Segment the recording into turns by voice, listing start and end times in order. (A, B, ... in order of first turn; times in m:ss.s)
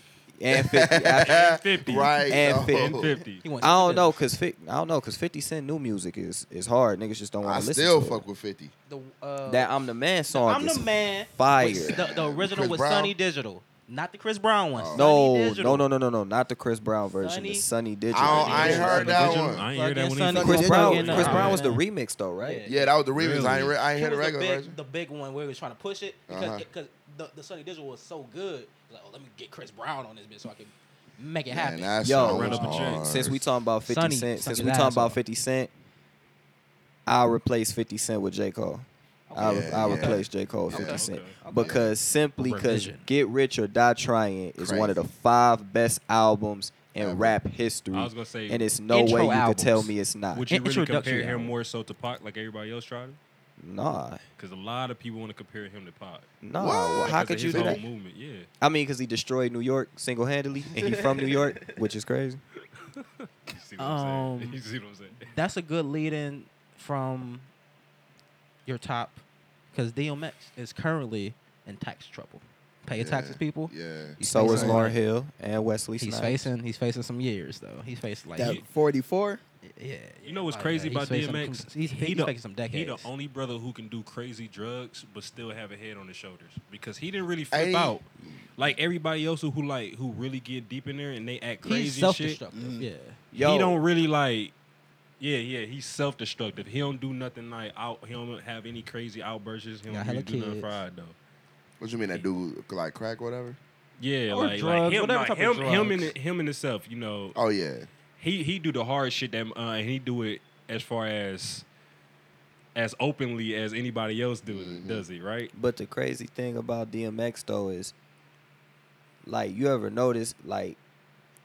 0:00.4-0:01.4 A
0:00.5-0:03.2 B
0:01.2-0:03.4 C
0:02.2-0:03.0 A
0:03.4-0:04.2 D
0:03.6-0:08.2 A
0:07.4-0:08.7 B
0:08.9-0:09.8 D
0:09.4-0:12.0 A
0:10.3-0:15.8 D
0:11.6-0:13.1 B
0:14.7-0:15.1 B
0:14.9-0:19.3 A
0:17.2-0:17.7 D
0:18.1-0:19.6 B
0:18.2-0:21.8 D
0:18.2-0:21.6 C
0:20.3-0:21.4 E
0:20.4-0:22.7 A
0:22.4-0:22.8 D
0:22.6-0:24.8 B
0:23.1-0:23.8 C
0:23.9-0:32.9 D
0:26.3-0:26.6 B
0:31.5-0:33.4 B
0:32.0-0:35.7 A
0:32.2-0:33.1 C
0:33.8-0:35.2 D
0:37.0-0:50.5 A
0:39.3-0:41.8 D
0:39.4-0:41.0 B
0:40.8-0:41.4 C
0:41.5-0:41.9 B
0:42.4-0:43.1 D
0:44.6-0:45.0 B
0:47.0-0:47.4 B
0:47.9-0:48.7 C
0:48.9-0:49.9 D
0:50.3-0:53.2 C
0:50.5-0:51.5 D
0:53.6-0:54.2 A
0:54.4-0:56.3 C
0:56.4-0:57.8 A
0:56.6-0:57.8 B
0:57.1-0:58.5 C
0:58.6-1:02.4 A
1:00.8-1:01.8 D
1:02.9-1:05.3 C
1:03.8-1:04.6 D
1:05.2-1:07.5 D
1:08.6-1:09.2 D
1:09.7-1:15.0 D
1:12.9-1:14.2 B
1:14.2-1:16.5 A
1:14.3-1:14.8 E
1:16.0-1:18.6 D
1:18.4-1:19.4 E
1:18.4-1:18.6 C
1:19.6-1:23.1 D
1:20.2-1:32.4 C
1:27.5-1:28.0 B
1:31.6-1:33.2 D
1:32.5-1:32.9 E
1:33.3-1:33.8 A
1:33.4-1:34.5 C
1:35.2-1:41.2 C
1:39.9-1:40.7 D
1:41.8-1:43.6 B
1:44.0-1:47.4 C
1:44.3-1:46.1 D
1:47.3-1:47.9 B
1:48.2-1:51.6 C
1:52.7-1:55.5 C
1:54.5-1:55.0 B
1:55.5-1:57.9 A
1:59.2-2:00.8 A